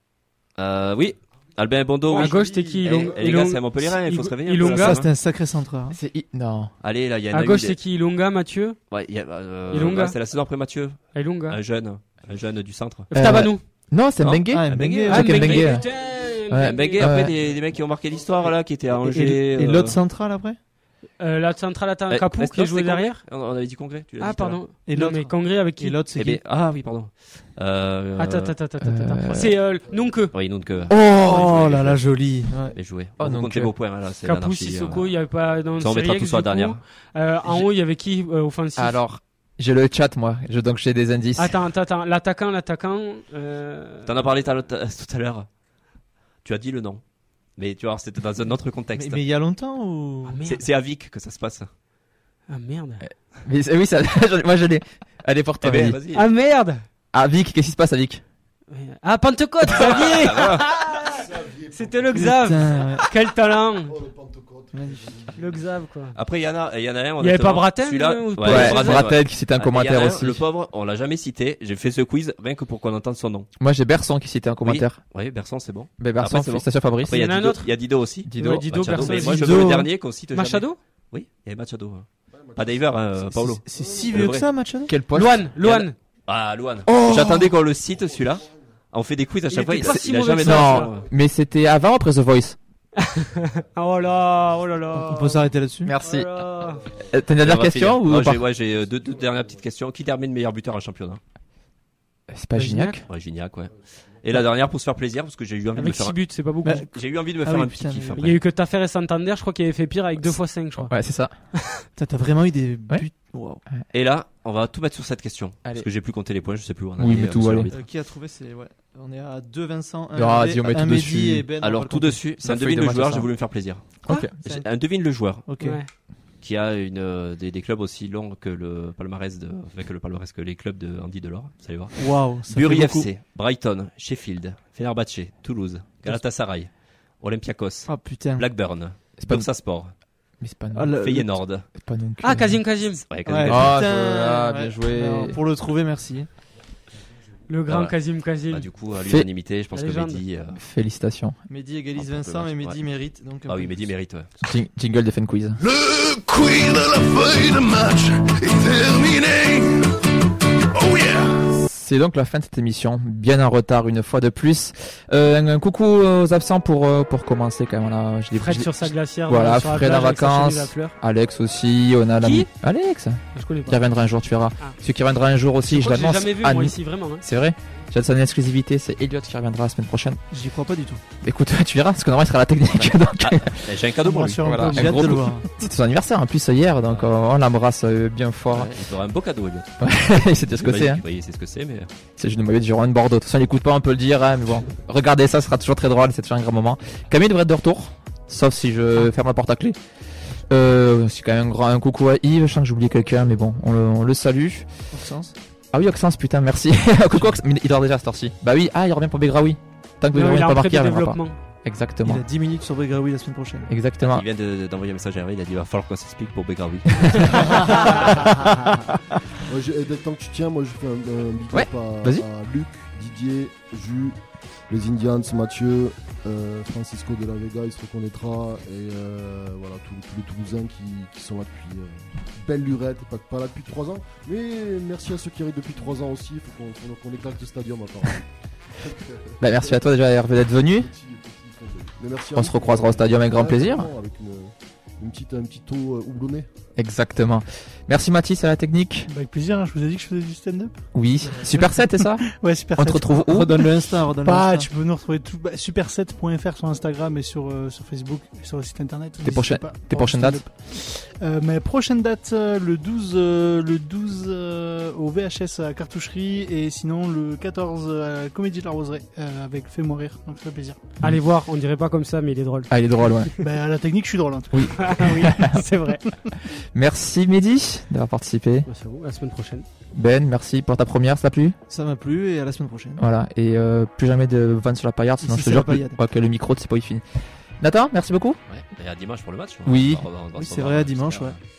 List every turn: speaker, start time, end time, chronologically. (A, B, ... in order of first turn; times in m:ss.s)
0:00.5-0:05.1 A
0:02.1-0:05.0 B
0:02.1-0:02.9 C
0:04.6-0:06.0 C
0:05.9-0:06.7 D
0:06.8-0:07.8 A
0:07.3-0:09.0 B
0:08.9-0:15.7 A
0:09.7-0:11.6 B
0:13.1-0:13.6 B
0:13.1-0:17.3 D
0:14.5-0:15.5 C
0:15.1-0:17.1 B
0:15.6-0:16.5 E
0:16.6-0:20.0 A
0:17.1-0:18.7 E
0:18.9-0:20.6 C
0:21.2-0:23.6 B
0:22.1-0:24.6 A
0:24.2-0:26.0 B
0:24.8-0:26.4 C
0:26.1-0:28.5 A
0:28.2-0:30.5 B
0:28.8-0:29.6 D
0:29.4-0:30.9 E
0:30.3-0:35.0 A
0:30.9-0:32.8 C
0:33.2-0:34.0 D
0:34.2-0:39.0 B
0:35.8-0:36.8 A
0:38.8-0:41.7 D
0:41.4-0:44.3 B
0:44.0-0:49.3 A
0:48.9-0:50.4 C
0:50.2-0:50.6 B
0:50.4-0:51.7 A
0:52.5-0:53.2 B
0:53.0-0:56.0 D
0:55.6-0:56.2 A
0:56.1-0:56.8 B
0:57.1-0:58.2 D
0:58.7-1:01.2 B
0:59.6-1:00.7 A
1:00.9-1:03.1 E
1:01.7-1:03.9 B
1:02.1-1:03.0 C
1:03.8-1:05.8 E
1:04.7-1:05.2 C
1:05.4-1:06.2 B
1:06.1-1:13.5 A
1:07.2-1:09.1 B
1:08.4-1:10.4 D
1:13.6-1:15.3 D
1:14.6-1:24.5 A
1:16.0-1:17.5 D
1:17.1-1:20.8 B
1:18.2-1:19.3 D
1:19.3-1:19.9 C
1:22.3-1:23.2 E
1:23.2-1:24.9 C
1:23.7-1:24.6 E
1:24.9-1:25.8 D
1:25.1-1:26.0 B
1:25.6-1:31.0 A
1:26.9-1:27.4 C
1:27.6-1:28.8 E
1:29.5-1:30.9 B
1:29.8-1:32.6 D
1:30.8-1:31.2 E
1:33.4-1:35.6 E
1:33.7-1:35.4 B
1:35.0-1:35.9 C
1:35.8-1:38.5 D
1:36.0-1:36.8 B
1:36.3-1:37.6 E
1:37.4-1:41.2 A
1:38.4-1:39.7 E
1:42.3-1:43.0 D
1:42.6-1:43.0 B
1:43.1-1:46.4 A
1:43.6-1:44.4 E
1:45.7-1:46.8 B
1:46.6-1:48.2 C
1:46.9-1:48.4 A
1:48.1-1:51.4 B
1:50.2-1:51.6 D
1:51.9-1:53.6 C
1:52.9-1:53.8 D
1:53.9-1:57.8 A
1:55.6-1:55.9 D
1:57.0-1:57.7 D
1:57.7-2:02.3 C
2:00.1-2:01.5 D
2:01.6-2:20.4 A
2:02.4-2:04.3 D
2:04.4-2:05.8 C
2:05.6-2:05.9 B
2:12.0-2:13.1 C
2:17.8-2:18.5 C
2:19.2-2:25.4 D
2:20.7-2:21.5 C
2:21.0-2:21.7 A
2:22.2-2:23.0 B
2:23.0-2:23.9 A
2:23.2-2:26.3 C
2:27.5-2:28.7 B
2:27.7-2:28.0 A
2:28.5-2:30.6 A
2:29.7-2:30.2 B
2:30.5-2:31.4 D
2:31.4-2:34.0 C
2:31.9-2:34.3 A
2:34.4-2:35.6 D
2:35.6-2:39.9 F
2:40.7-2:41.5 F
2:41.6-3:00.3 D
2:48.4-2:51.0 B
2:52.2-2:52.5 B
2:53.3-2:54.8 B
2:55.6-2:57.2 B
3:00.3-3:01.0 C
3:01.2-3:03.8 D
3:02.7-3:05.4 A
3:04.0-3:05.5 C
3:04.4-3:08.7 D
3:08.5-3:11.9 A
3:09.8-3:11.0 D
3:12.2-3:25.0 D
3:24.9-3:25.3 C
3:25.6-3:32.2 D
3:30.1-3:31.4 B
3:32.0-3:33.7 C
3:33.7-3:34.2 D
3:34.0-3:38.0 A
3:39.4-4:06.5 E
3:41.5-3:42.2 D
3:59.4-4:00.9 D
4:02.3-4:03.9 D
4:06.8-4:09.1 D
4:09.0-4:31.0 G
4:10.9-4:13.8 D
4:13.2-4:14.7 C
4:19.2-4:20.5 D
4:31.0-4:33.3 B
4:32.7-4:33.3 D
4:33.4-4:36.1 G
4:34.5-4:35.5 D
4:34.8-4:36.0 B
4:36.7-4:38.7 D
4:38.6-4:39.6 B
4:39.9-4:41.6 D
4:41.7-4:43.0 C
4:43.0-4:48.4 D
4:45.2-4:46.0 C
4:48.5-4:51.4 A
4:49.6-4:50.0 D
4:50.3-4:51.4 C